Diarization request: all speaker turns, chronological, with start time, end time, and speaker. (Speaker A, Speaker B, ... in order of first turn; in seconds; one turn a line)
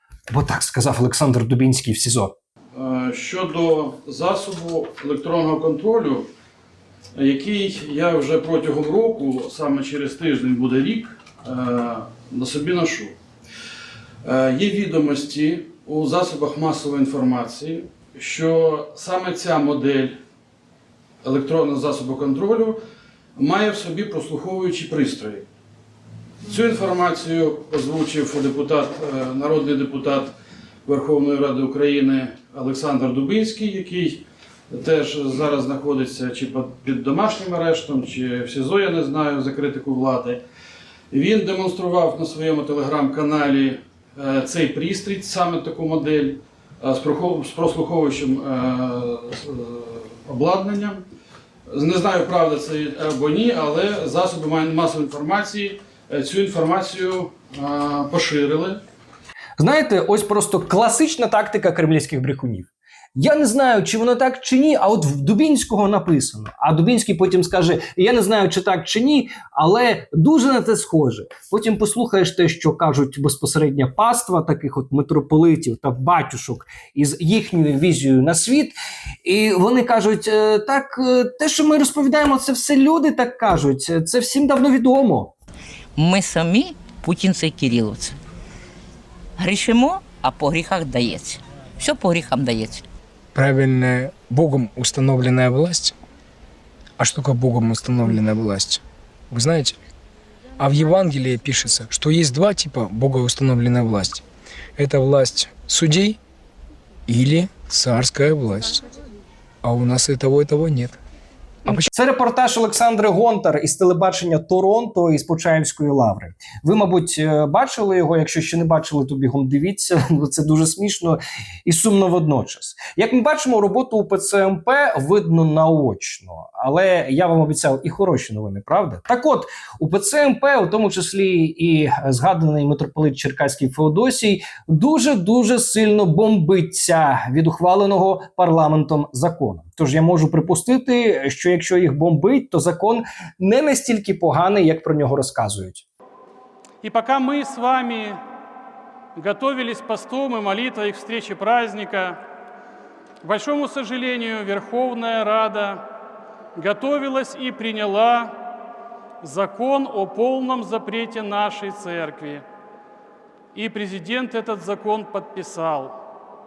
Speaker A: 0.3-2.3
Speaker B: 2.8-6.2
Speaker B: 7.2-13.1
Speaker B: 14.2-20.1
Speaker B: 21.2-22.8
Speaker B: 23.4-25.4
Speaker B: 26.5-30.3
Speaker B: 30.9-34.2
Speaker B: 34.7-40.4
Speaker B: 41.1-51.0
Speaker B: 51.7-58.8
Speaker A: 59.6-85.3
Speaker C: 86.0-88.2
Speaker C: 89.4-92.8
Speaker D: 93.3-96.0
Speaker D: 97.0-99.7
Speaker D: 100.6-104.2
Speaker D: 104.8-106.2
Speaker D: 107.1-108.8
Speaker D: 109.6-111.0
Speaker A: 111.7-145.8
Speaker E: 146.8-148.2
Speaker E: 149.2-152.2
Speaker E: 153.2-155.8
Speaker E: 156.5-158.3
Speaker E: 159.2-162.4
Speaker E: 163.5-165.9